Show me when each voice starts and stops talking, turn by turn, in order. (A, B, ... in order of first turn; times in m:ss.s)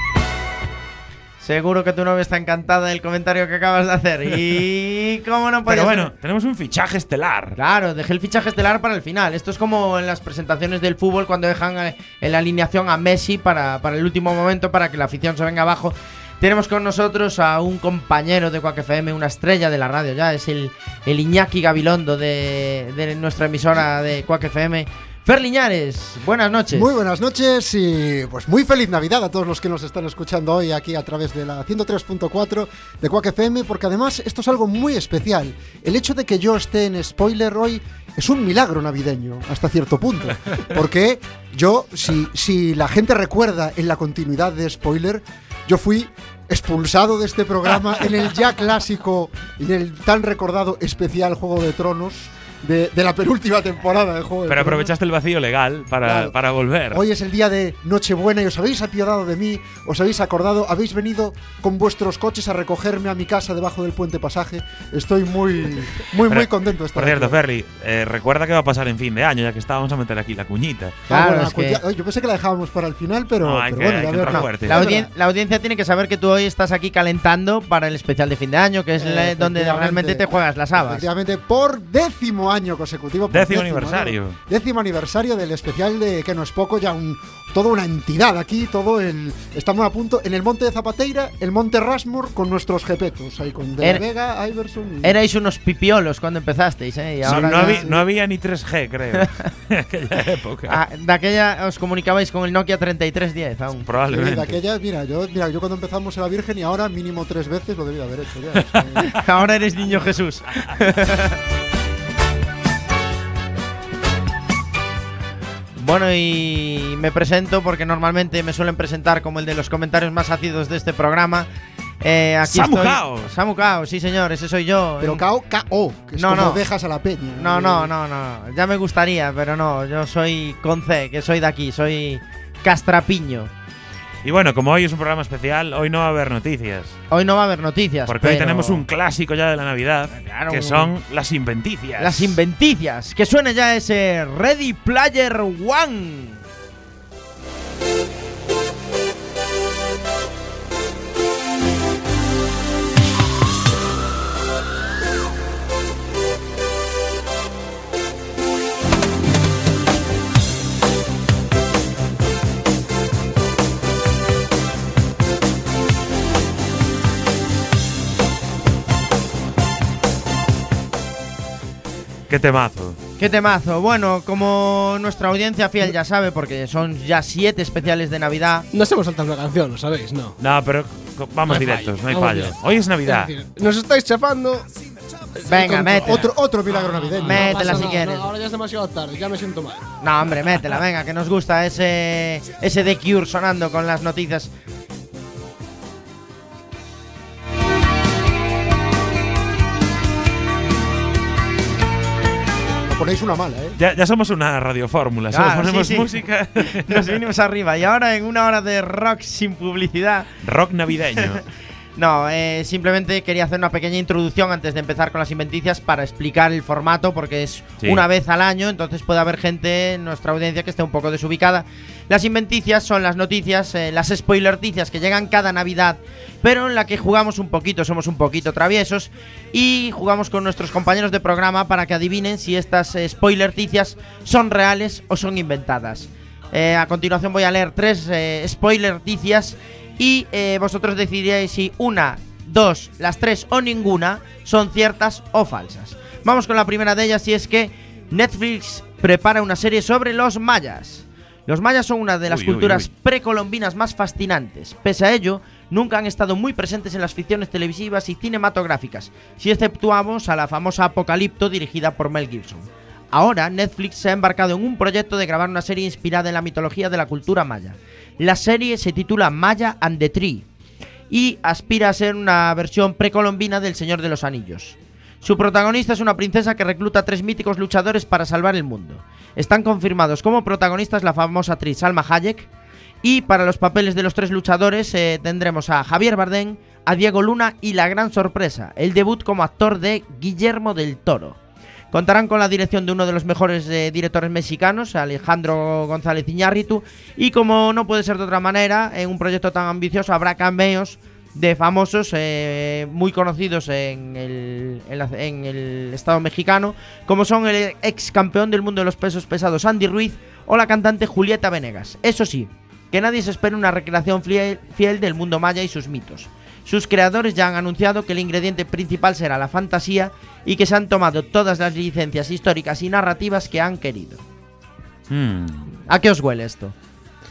0:01.4-0:06.1 A
0:05.7-0:07.6 B
0:07.6-0:26.9 A
0:26.7-0:54.9 C
0:54.5-0:57.0 B
0:56.0-0:56.3 C
0:56.9-1:07.4 C
1:06.3-1:11.0 B
1:11.1-1:11.8 A
1:11.1-1:15.1 C
1:13.4-1:14.8 B
1:14.2-1:21.0 A
1:19.0-1:35.2 C
1:23.3-1:24.4 B
1:35.0-1:37.8 A
1:37.2-1:38.0 C
1:37.2-1:40.8 B
1:40.7-1:43.9 A
1:43.8-1:44.6 B
1:44.1-1:49.2 C
1:49.1-1:51.4 A
1:55.8-2:01.5 A
2:02.0-2:05.2 A
2:02.4-2:03.3 B
2:05.0-2:07.9 C
2:06.2-2:06.6 A
2:07.4-2:13.5 A
2:14.2-2:17.0 B
2:17.1-2:18.8 A
2:18.0-2:22.4 B
2:20.1-2:20.9 A
2:22.0-2:26.4 A
2:52.3-2:53.0 B
2:53.2-2:58.7 A
2:58.7-3:00.3 D
3:00.4-3:03.3 B
3:01.5-3:04.7 D
3:05.5-3:06.3 A
3:05.5-3:08.0 C
3:06.8-3:09.9 D
3:07.2-3:08.3 A
3:10.0-3:14.5 A
3:22.8-3:23.8 C
3:23.8-3:27.2 B
3:25.3-3:26.1 A
3:26.6-3:30.3 A
3:30.4-3:31.4 B
3:32.0-4:30.4 A
4:12.3-4:12.9 B
4:31.1-4:42.5 A
4:43.0-4:51.4 A
4:51.9-5:24.2 A
5:25.1-5:25.7 B
5:25.9-5:26.7 A